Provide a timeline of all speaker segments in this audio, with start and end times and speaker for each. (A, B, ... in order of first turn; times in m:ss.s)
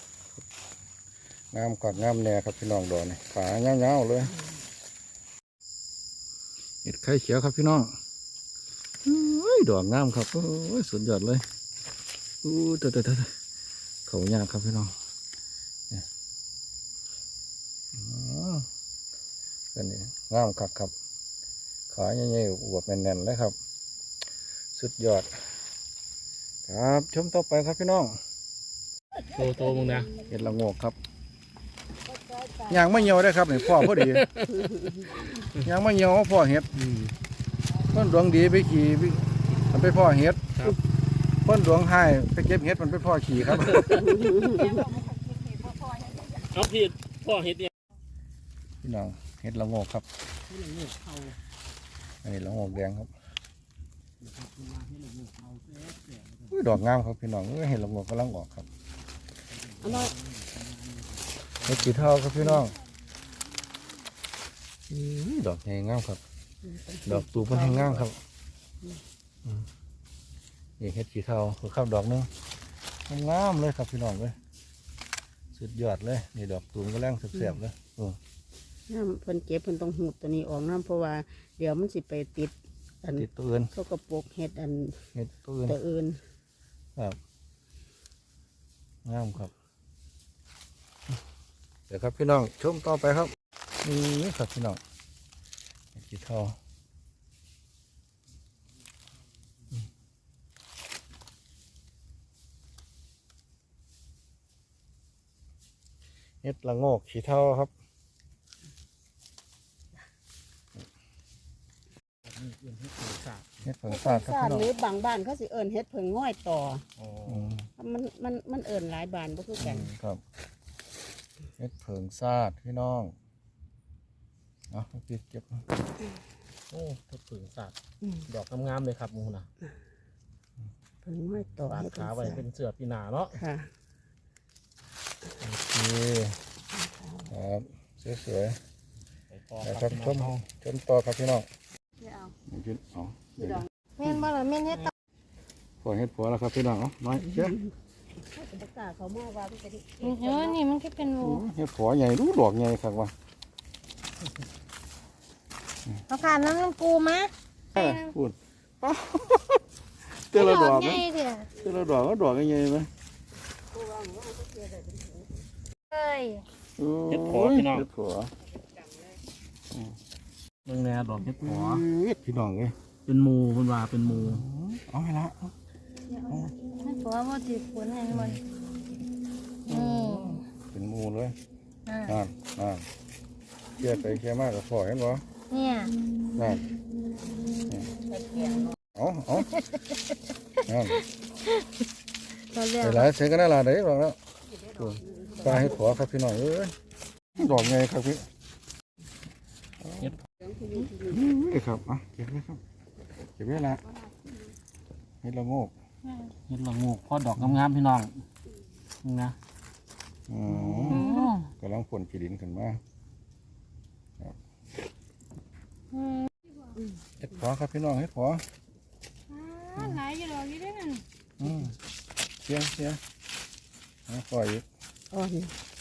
0:01.5-0:04.3 A
0:06.8-0:07.9 A
0:09.0-0:11.4 A
0:12.4-0:13.3 A
0:14.0-0:14.9 A
0:17.9-0:18.6 A
0:19.7-0:20.9 A
0:21.9-0:23.5 A
0:24.7-0:25.3 A
0:26.7-0:28.2 A
0:29.3-0:30.1 B
0:29.4-0:29.9 C
0:30.2-0:31.0 A
0:32.1-0:33.2 C
0:32.7-0:34.2 A
0:33.6-0:35.6 B
0:34.5-0:35.0 C
0:35.6-0:36.9 A
0:37.9-0:40.5 A
0:41.4-0:44.0 A
0:43.5-0:47.7 B
0:43.9-0:44.9 C
0:48.8-0:50.0 A
0:50.5-0:51.3 B
0:52.2-0:53.1 A
0:54.2-0:56.3 B
0:56.5-0:58.7 A
0:59.8-1:00.1 C
0:59.8-1:00.1 A
0:59.8-1:01.0 B
1:01.6-1:02.7 A
1:01.6-1:02.0 B
1:04.9-1:06.2 A
1:06.6-1:08.1 C
1:07.0-1:08.2 A
1:10.8-1:12.3 A
1:13.1-1:14.4 A
1:15.5-1:18.2 A
1:18.9-1:25.0 C
1:23.1-1:23.7 A
1:25.1-1:25.8 A
1:25.6-1:26.2 C
1:29.0-1:29.5 A
1:31.9-1:34.8 A
1:35.9-1:36.6 A
1:46.4-1:47.7 A
1:52.2-1:53.5 B
1:53.6-1:54.7 A
1:53.9-1:56.8 C
1:57.0-1:57.6 B
1:57.2-1:57.7 A
1:57.8-1:59.9 C
1:59.6-2:00.2 A
2:01.6-2:03.1 A
2:04.7-2:05.6 A
2:06.7-2:07.8 B
2:08.3-2:09.5 B
2:11.0-2:12.4 C
2:11.6-2:13.4 B
2:13.3-2:13.7 C
2:15.4-2:16.4 A
2:16.7-2:17.3 C
2:17.3-2:18.6 A
2:19.3-2:20.4 B
2:19.6-2:21.5 A
2:22.0-2:22.3 C
2:22.5-2:23.7 A
2:24.0-2:24.9 D
2:25.8-2:27.6 A
2:28.2-2:30.6 C
2:30.0-2:31.4 D
2:31.2-2:33.1 A
2:36.1-2:38.1 D
2:37.7-2:42.9 A
2:40.3-2:41.5 D
2:43.7-2:45.4 C
2:45.9-2:46.4 D
2:46.8-2:48.3 A
2:47.1-2:47.9 B
2:50.6-2:51.8 B
2:51.4-2:52.8 A
2:53.0-2:54.4 B
2:54.0-2:55.5 A
2:56.1-2:58.4 D
2:58.1-2:58.4 A
2:59.7-3:00.4 D
2:59.7-3:01.4 A
3:01.9-3:02.2 D
3:02.0-3:02.9 A
3:03.8-3:05.2 A
3:05.5-3:05.9 D
3:06.4-3:06.6 A
3:08.0-3:08.8 C
3:08.9-3:09.6 A
3:10.6-3:11.0 A
3:12.5-3:13.1 D
3:12.8-3:14.2 A
3:14.6-3:15.7 C
3:14.8-3:16.7 A
3:17.4-3:18.2 A
3:19.8-3:20.1 A
3:20.4-3:21.3 C
3:21.0-3:22.6 A
3:23.4-3:23.8 A
3:25.2-3:25.7 A
3:26.5-3:28.2 B
3:29.0-3:29.4 B
3:30.3-3:32.8 A
3:30.9-3:31.5 D
3:35.9-3:36.3 D
3:37.2-3:38.4 A
3:39.3-3:41.0 D
3:39.8-3:40.0 A
3:41.4-3:41.7 A
3:42.4-3:43.0 A
3:44.1-3:44.6 A
3:45.1-3:45.5 C